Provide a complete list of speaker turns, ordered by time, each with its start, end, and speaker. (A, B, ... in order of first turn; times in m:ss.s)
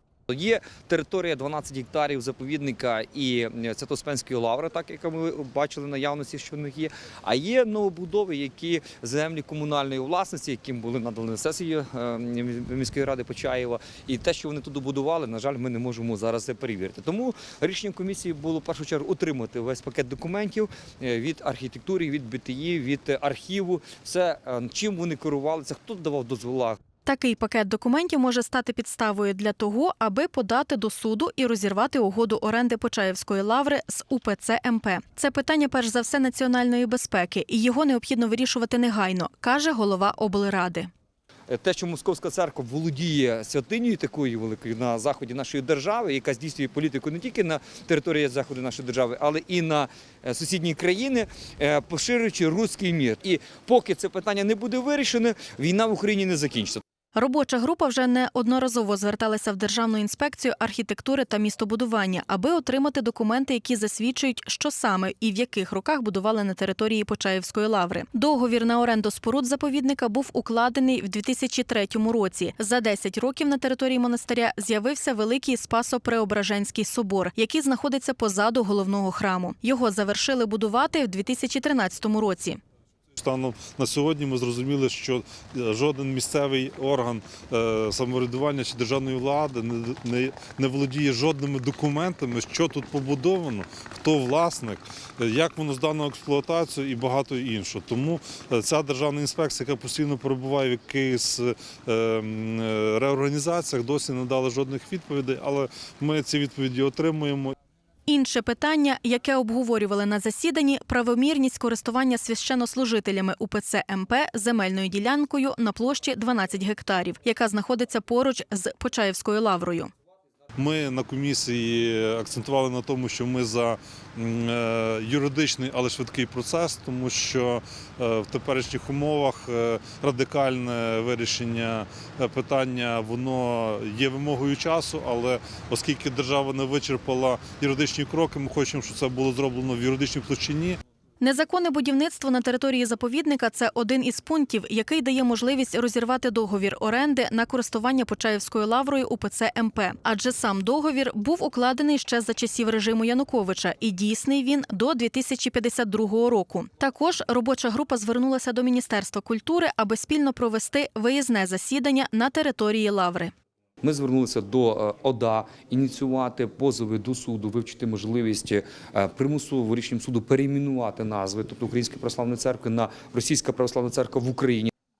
0:00.3-0:26.8 A
0:27.0-0:40.9 B
0:41.5-0:56.8 A
0:57.1-1:22.6 B
1:23.2-1:47.5 C
1:48.0-1:59.9 B
2:00.6-2:20.8 C
2:21.2-2:43.3 B
2:43.8-2:54.7 A